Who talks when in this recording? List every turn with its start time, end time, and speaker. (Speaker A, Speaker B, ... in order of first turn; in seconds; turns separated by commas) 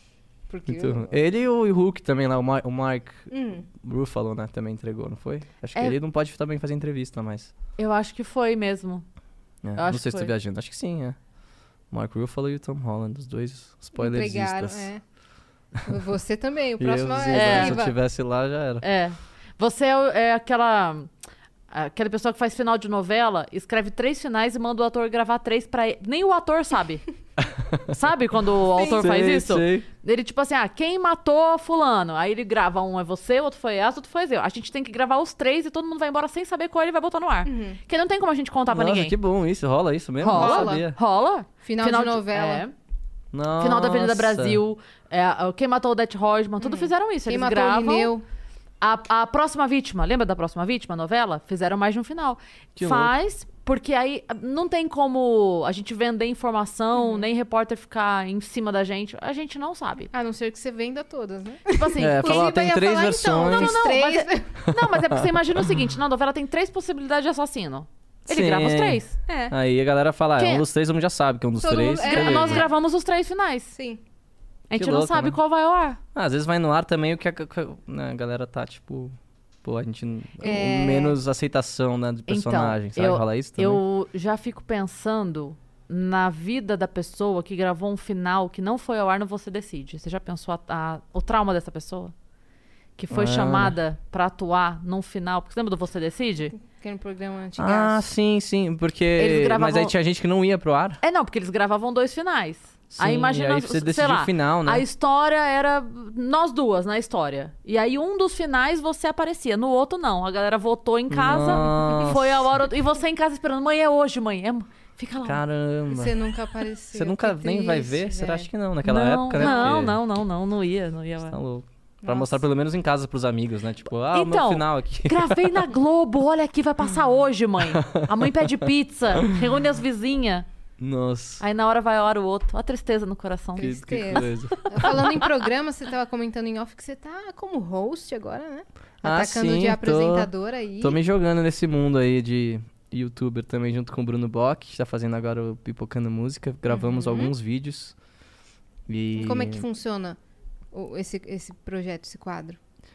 Speaker A: 0.5-1.2, Speaker B: 0.7-3.3, Speaker A: 3.3-3.7, Speaker B: 3.8-7.5, Speaker C: 7.8-9.1, Speaker B: 9.6-11.2, Speaker C: 9.8-10.3, Speaker B: 11.9-14.9, Speaker A: 14.0-15.0, Speaker A: 15.8-17.9, Speaker B: 16.8-18.8, Speaker C: 17.3-17.8, Speaker C: 18.8-21.1, Speaker C: 21.7-27.1, Speaker B: 27.6-27.9, Speaker C: 27.9-39.1, Speaker A: 28.8-29.1, Speaker B: 28.9-29.9, Speaker A: 37.5-37.8, Speaker B: 38.7-41.0, Speaker C: 40.2-42.7, Speaker A: 40.3-40.8, Speaker A: 41.6-42.7, Speaker B: 43.3-44.6, Speaker C: 43.6-48.1, Speaker A: 46.6-48.2, Speaker C: 48.8-60.1, Speaker B: 52.8-53.1, Speaker A: 57.0-57.2, Speaker A: 60.1-64.6, Speaker C: 61.7-62.5, Speaker B: 62.0-63.9, Speaker C: 63.5-69.2, Speaker B: 68.3-72.7, Speaker A: 69.3-69.5, Speaker C: 70.4-70.6, Speaker A: 71.6-72.7, Speaker C: 72.0-73.7, Speaker A: 73.7-74.0, Speaker C: 74.7-76.0, Speaker B: 74.7-75.4, Speaker B: 76.1-83.8, Speaker A: 80.4-81.2, Speaker C: 82.3-92.1, Speaker C: 93.0-96.5, Speaker B: 93.1-93.7, Speaker A: 96.6-98.0, Speaker B: 97.6-101.0, Speaker C: 99.2-99.9, Speaker C: 101.0-115.4, Speaker B: 102.9-104.8, Speaker B: 111.1-112.5, Speaker B: 115.2-116.2, Speaker A: 115.9-118.5, Speaker B: 116.9-120.0, Speaker C: 118.8-121.4, Speaker A: 119.4-119.7, Speaker B: 121.3-125.3, Speaker A: 122.0-122.4, Speaker C: 124.1-130.4, Speaker B: 127.7-128.5, Speaker B: 130.8-131.4, Speaker C: 131.4-135.1, Speaker B: 133.6-135.1, Speaker A: 133.6-141.0, Speaker B: 139.0-140.3, Speaker B: 140.8-147.9, Speaker A: 146.7-147.3, Speaker B: 148.9-149.6, Speaker A: 149.2-150.2, Speaker A: 150.7-152.6